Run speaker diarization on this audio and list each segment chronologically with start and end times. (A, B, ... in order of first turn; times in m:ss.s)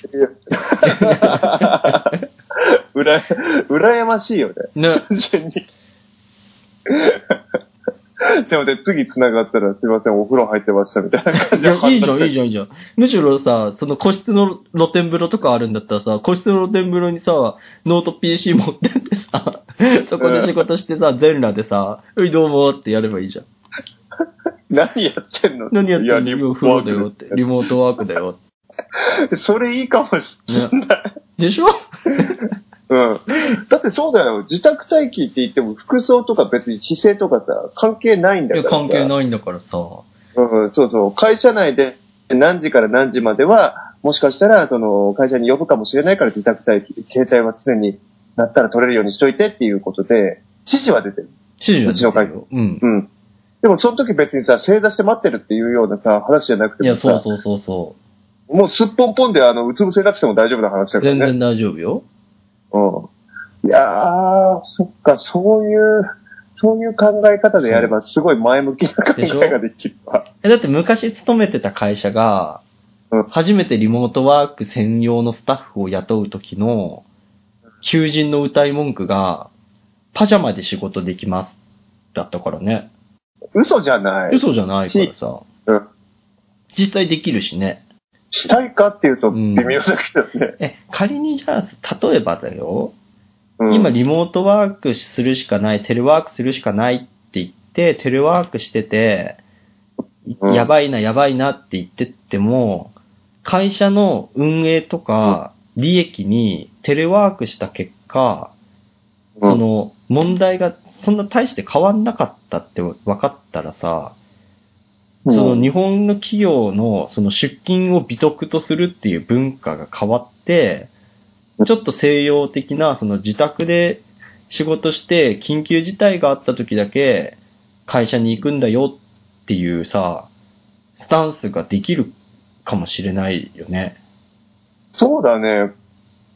0:00.1-0:05.6 A
0:00.8-0:02.2 B
0:04.7-0:05.0 B
0:06.9-0:07.4 A
0:08.2-0:12.3 A
0:11.5-0:23.4 B
0:20.2-0:20.5 A
0:24.7-0:27.4 A
0:25.7-0:28.4 B
0:29.0-0:31.0 A
0:30.5-0:30.7 B
0:31.4-0:32.4 B
0:32.9-0:39.1 A
0:38.5-0:40.1 B
0:40.4-0:51.3 A
0:51.6-0:52.8 B
0:51.8-0:52.3 A
0:52.8-0:53.1 A
0:53.6-0:57.2 A
0:56.8-0:58.0 B
0:58.5-1:01.3 A
1:01.0-1:02.0 B
1:02.7-1:03.1 A
1:03.6-1:06.0 A
1:06.5-1:10.2 A
1:07.6-1:07.9 B
1:09.2-1:09.6 B
1:10.4-1:12.6 B
1:13.3-1:17.0 B
1:17.8-1:19.5 B
1:20.1-1:21.6 B
1:22.1-1:22.9 B
1:23.5-1:25.1 A
1:24.3-1:25.4 B
1:26.7-1:27.8 B
1:28.3-1:30.5 A
1:29.3-1:29.8 B
1:30.6-1:32.9 B
1:33.6-1:33.9 A
1:33.7-1:39.4 B
1:40.2-1:48.5 B
1:40.4-1:40.7 A
1:49.4-1:54.2 B
1:55.2-1:55.7 A
1:55.3-2:00.9 B
2:01.6-2:10.3 B
2:11.0-2:12.1 B
2:12.6-2:14.0 B
2:14.9-2:15.7 A